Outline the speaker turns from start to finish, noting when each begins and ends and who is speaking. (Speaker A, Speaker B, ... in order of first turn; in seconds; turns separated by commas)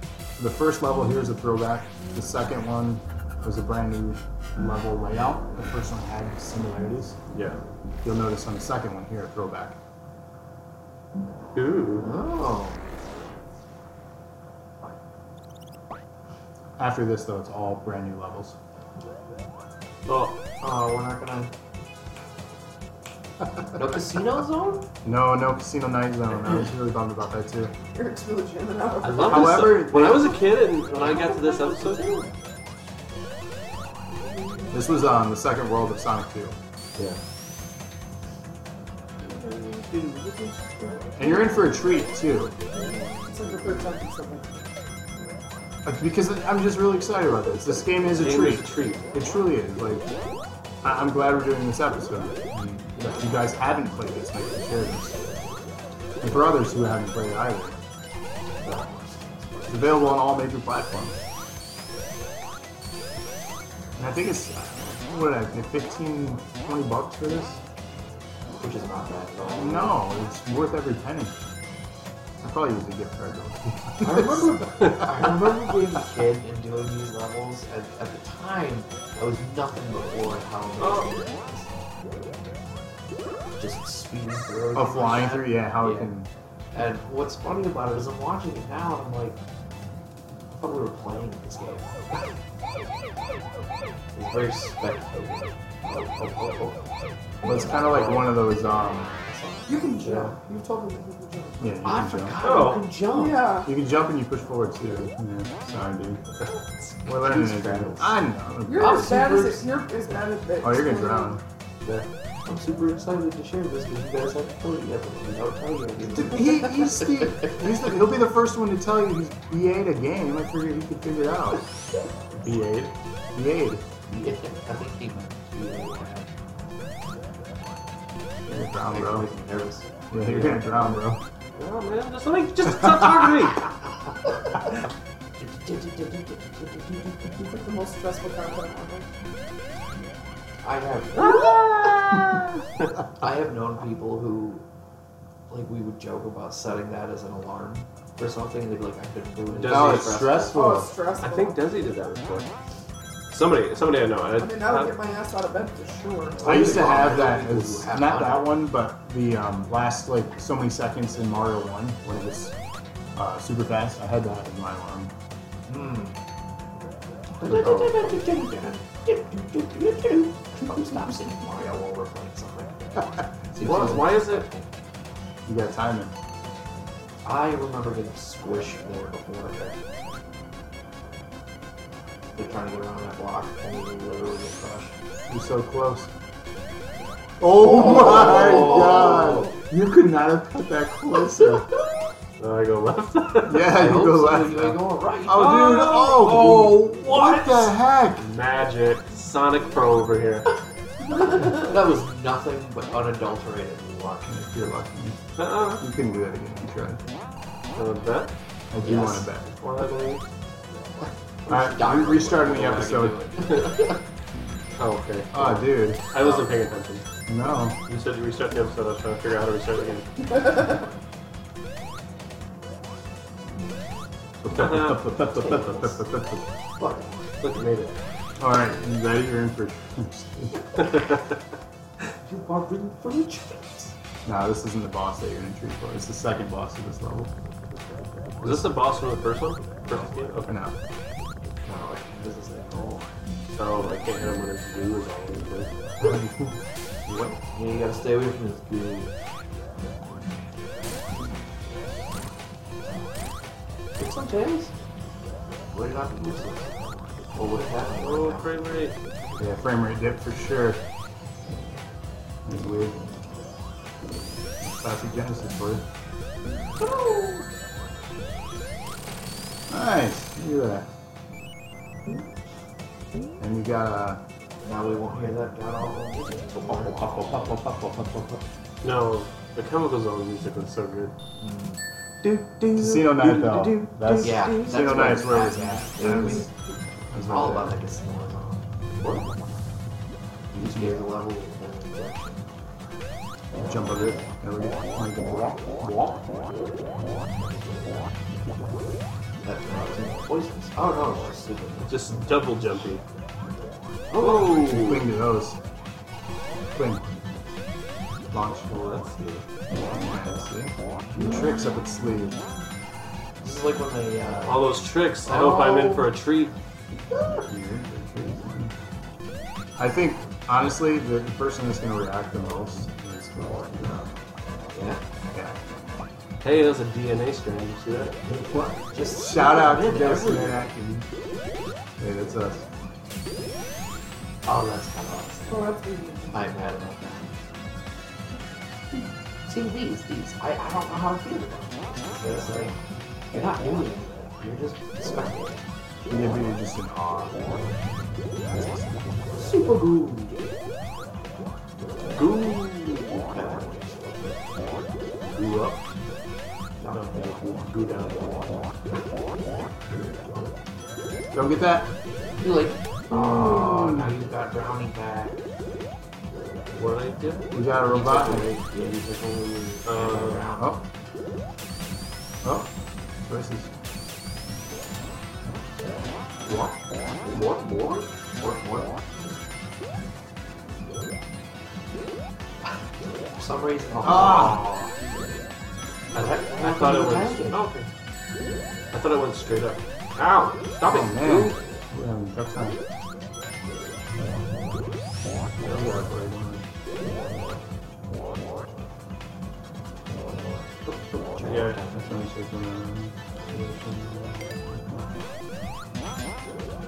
Speaker A: 0.3-7.2, Speaker B: 7.3-7.6, Speaker A: 8.0-9.8, Speaker B: 11.5-12.1, Speaker C: 12.0-12.9, Speaker A: 16.8-18.6, Speaker B: 20.1-20.4, Speaker C: 20.6-21.5, Speaker C: 23.7-24.9, Speaker A: 25.0-27.7, Speaker D: 27.9-29.8, Speaker B: 29.0-32.2, Speaker A: 29.2-30.4, Speaker C: 30.9-31.5, Speaker A: 34.7-36.6, Speaker B: 39.2-41.0, Speaker A: 41.2-42.5, Speaker D: 41.2-41.6, Speaker D: 43.3-44.6, Speaker A: 45.8-50.1, Speaker B: 48.1-49.1, Speaker A: 50.8-55.2, Speaker A: 56.2-57.8, Speaker C: 58.6-60.0, Speaker A: 59.7-61.2, Speaker A: 64.0-67.6, Speaker C: 68.6-70.0, Speaker A: 69.5-71.3, Speaker A: 72.4-75.1, Speaker C: 74.0-81.7, Speaker B: 80.8-81.1, Speaker C: 83.5-86.1, Speaker A: 84.7-86.3, Speaker C: 86.7-89.4, Speaker C: 90.5-91.9, Speaker C: 94.1-96.8, Speaker C: 97.4-98.2, Speaker A: 97.4-99.1, Speaker B: 97.8-98.3, Speaker C: 98.8-100.3, Speaker D: 99.7-101.8, Speaker A: 101.6-102.3, Speaker C: 101.8-103.5, Speaker B: 102.4-102.9, Speaker D: 103.1-103.7, Speaker A: 103.6-106.2, Speaker C: 106.8-108.2, Speaker A: 107.0-109.6, Speaker D: 108.7-111.4, Speaker C: 108.8-109.6, Speaker A: 110.6-112.0, Speaker C: 112.5-117.6, Speaker A: 116.1-121.6, Speaker A: 122.3-123.8, Speaker C: 124.1-126.3, Speaker A: 128.5-129.3, Speaker C: 128.9-131.0, Speaker A: 130.1-131.2, Speaker B: 131.6-133.7, Speaker C: 135.4-137.3, Speaker D: 137.3-139.1, Speaker C: 140.6-141.9, Speaker B: 141.2-142.9, Speaker C: 143.2-144.6, Speaker C: 145.5-150.5, Speaker B: 149.5-150.2, Speaker A: 149.7-150.9, Speaker D: 150.3-151.6, Speaker B: 151.2-152.5, Speaker B: 153.3-154.9, Speaker D: 154.4-156.6, Speaker C: 156.4-158.6, Speaker A: 156.4-162.5, Speaker A: 163.1-165.1, Speaker C: 165.7-166.2, Speaker C: 167.4-172.9, Speaker A: 167.4-168.1, Speaker C: 173.5-174.7, Speaker B: 173.6-174.4, Speaker A: 175.4-176.1, Speaker C: 177.2-179.8, Speaker C: 182.3-185.0, Speaker A: 185.3-186.1, Speaker A: 187.4-191.7, Speaker C: 187.7-189.5, Speaker B: 188.4-188.9, Speaker B: 192.4-193.7, Speaker A: 193.4-198.2, Speaker C: 193.7-195.7, Speaker B: 195.3-200.5, Speaker C: 201.1-204.5, Speaker A: 204.2-205.2, Speaker B: 205.4-205.8, Speaker A: 205.8-207.0, Speaker B: 207.7-208.3, Speaker A: 208.7-209.5, Speaker C: 208.8-209.3, Speaker B: 209.5-210.2, Speaker C: 211.4-214.0, Speaker A: 211.5-213.2, Speaker B: 214.8-217.0, Speaker A: 215.3-216.1, Speaker A: 217.3-217.8, Speaker B: 217.9-220.6, Speaker A: 224.4-226.5, Speaker B: 224.5-225.1, Speaker C: 225.3-225.9, Speaker C: 226.8-227.2, Speaker B: 227.4-228.0, Speaker A: 228.4-230.9, Speaker C: 232.2-233.9, Speaker A: 234.2-237.3, Speaker B: 238.4-240.5, Speaker A: 238.4-238.7, Speaker A: 240.4-240.8, Speaker C: 241.6-243.1, Speaker B: 243.5-245.8, Speaker A: 246.0-247.4, Speaker C: 247.5-249.1, Speaker C: 254.0-254.7, Speaker C: 255.7-258.6, Speaker B: 258.0-258.9, Speaker A: 259.4-260.8, Speaker A: 262.4-263.0, Speaker A: 264.7-265.8, Speaker B: 266.8-267.4, Speaker A: 269.7-270.9, Speaker A: 273.4-274.2, Speaker C: 274.6-277.2, Speaker A: 276.7-278.4, Speaker B: 278.8-281.1, Speaker C: 281.4-281.8, Speaker B: 282.2-285.5, Speaker A: 282.7-286.5, Speaker C: 284.1-286.5, Speaker A: 287.1-287.7, Speaker C: 287.2-288.6, Speaker A: 290.5-290.9, Speaker C: 290.5-292.5, Speaker A: 293.6-296.2, Speaker C: 299.4-302.0, Speaker B: 301.9-303.0, Speaker C: 304.1-304.6, Speaker B: 304.2-305.1, Speaker A: 304.4-305.6, Speaker A: 306.7-307.1, Speaker A: 308.3-308.7, Speaker B: 308.7-309.4, Speaker A: 309.7-312.4, Speaker C: 313.4-314.7, Speaker B: 314.4-316.5, Speaker C: 315.2-316.1, Speaker A: 317.4-318.7, Speaker A: 319.8-324.1, Speaker C: 324.7-325.0, Speaker A: 325.3-325.6, Speaker B: 326.4-328.1, Speaker A: 328.3-331.1, Speaker C: 328.9-330.6, Speaker A: 332.0-332.6, Speaker C: 334.4-335.7, Speaker D: 335.5-336.5, Speaker C: 336.3-337.3, Speaker C: 339.4-342.8, Speaker C: 343.3-345.6, Speaker A: 346.1-347.7, Speaker A: 348.3-349.3, Speaker C: 349.3-350.5, Speaker B: 352.1-353.3, Speaker C: 353.3-354.5, Speaker B: 355.3-355.8, Speaker C: 356.8-357.4, Speaker B: 356.9-358.4, Speaker A: 361.3-361.9, Speaker C: 362.4-365.4, Speaker A: 363.1-364.1, Speaker B: 366.7-367.5, Speaker A: 367.5-368.5, Speaker C: 367.9-370.8, Speaker B: 369.9-370.5, Speaker A: 372.4-372.7, Speaker A: 373.2-373.7, Speaker C: 376.4-376.7, Speaker C: 377.2-377.6, Speaker B: 377.4-377.7, Speaker C: 378.3-379.3, Speaker C: 383.3-384.8, Speaker A: 384.0-384.6, Speaker B: 384.4-384.7, Speaker C: 386.1-387.6, Speaker B: 386.1-387.9, Speaker B: 388.9-391.6, Speaker A: 390.9-392.8, Speaker B: 395.6-395.9, Speaker A: 395.7-396.6, Speaker C: 400.8-402.1, Speaker B: 401.4-401.8, Speaker A: 402.0-405.1